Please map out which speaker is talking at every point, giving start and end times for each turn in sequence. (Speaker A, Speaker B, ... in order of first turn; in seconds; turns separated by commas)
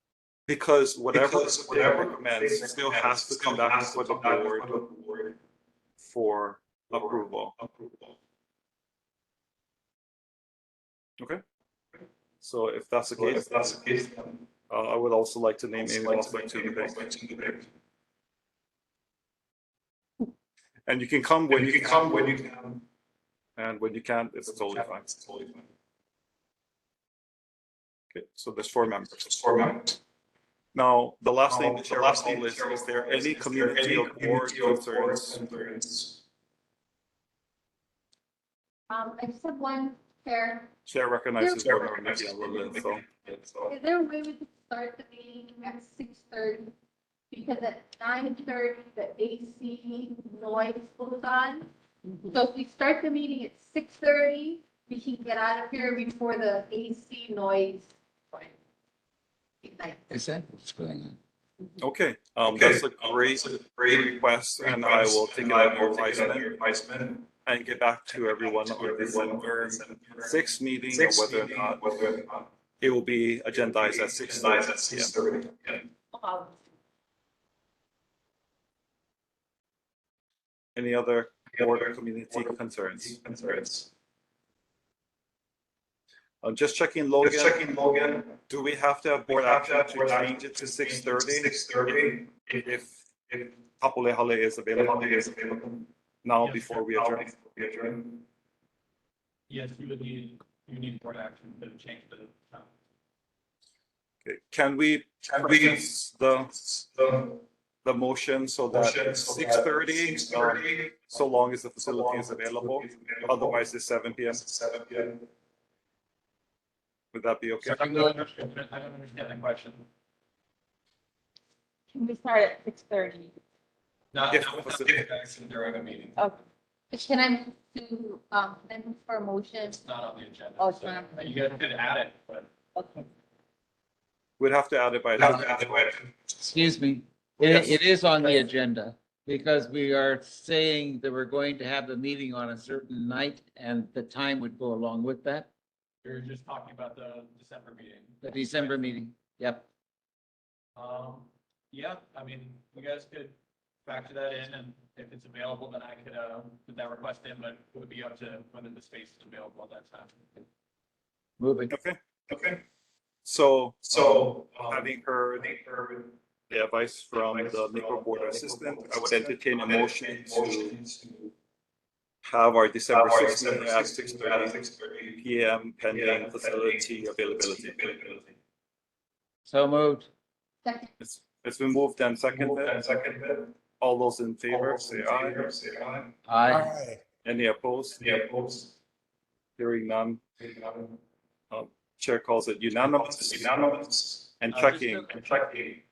Speaker A: 0.5-4.8, Speaker B: 1.1-5.4, Speaker A: 6.0-7.5, Speaker B: 6.9-8.2, Speaker A: 12.4-13.8, Speaker B: 13.2-14.4, Speaker A: 14.7-17.0, Speaker B: 15.8-17.7, Speaker A: 20.9-22.2, Speaker B: 21.5-22.8, Speaker A: 23.6-25.1, Speaker B: 24.5-25.7, Speaker A: 28.1-29.3, Speaker B: 29.2-30.0, Speaker A: 30.7-35.4, Speaker B: 31.5-36.2, Speaker C: 38.9-40.7, Speaker A: 40.9-43.0, Speaker C: 41.4-42.0, Speaker B: 41.6-43.7, Speaker C: 43.7-46.7, Speaker C: 47.3-51.7, Speaker C: 52.2-58.5, Speaker C: 59.6-60.2, Speaker D: 60.1-61.2, Speaker A: 61.8-66.5, Speaker B: 62.5-67.3, Speaker A: 67.5-71.8, Speaker B: 68.1-72.5, Speaker A: 72.8-75.1, Speaker B: 73.6-75.9, Speaker E: 76.1-76.5, Speaker A: 80.8-83.2, Speaker B: 81.5-83.9, Speaker A: 86.4-87.6, Speaker B: 87.2-88.4, Speaker A: 88.5-93.0, Speaker B: 89.3-92.6, Speaker B: 93.3-93.6, Speaker A: 93.7-95.3, Speaker B: 94.8-95.9, Speaker A: 96.2-97.3, Speaker B: 96.5-98.2, Speaker F: 99.5-102.7, Speaker A: 104.2-106.7, Speaker B: 105.3-105.9, Speaker B: 106.7-107.4, Speaker A: 107.8-114.4, Speaker B: 108.7-111.2, Speaker B: 111.8-113.6, Speaker B: 114.3-115.3, Speaker A: 117.1-118.1, Speaker F: 117.6-119.9, Speaker E: 121.9-123.3, Speaker F: 124.1-126.3, Speaker A: 124.3-125.1, Speaker C: 126.9-129.8, Speaker F: 129.7-132.5, Speaker E: 130.6-131.0, Speaker A: 134.4-135.9, Speaker D: 135.2-135.5, Speaker B: 135.2-136.5, Speaker D: 136.5-145.5, Speaker A: 137.5-137.8, Speaker F: 146.0-148.9, Speaker D: 148.2-149.7, Speaker F: 150.8-160.4, Speaker D: 161.4-161.7, Speaker A: 161.7-162.0, Speaker B: 162.3-162.6, Speaker A: 163.2-165.5, Speaker B: 163.9-166.2, Speaker A: 166.5-170.8, Speaker B: 167.1-171.3, Speaker A: 172.2-174.6, Speaker B: 172.9-175.2, Speaker A: 175.2-177.9, Speaker B: 175.9-178.3, Speaker D: 179.5-180.1, Speaker C: 180.6-180.9, Speaker A: 181.0-182.8, Speaker B: 182.3-183.6, Speaker A: 183.8-185.4, Speaker B: 184.5-186.1, Speaker D: 186.3-186.8, Speaker A: 187.2-188.0, Speaker B: 188.0-188.7, Speaker A: 189.6-190.2, Speaker B: 190.4-191.0, Speaker A: 191.5-193.8, Speaker B: 192.8-194.3, Speaker A: 194.4-195.2, Speaker F: 194.5-195.4, Speaker B: 195.1-195.8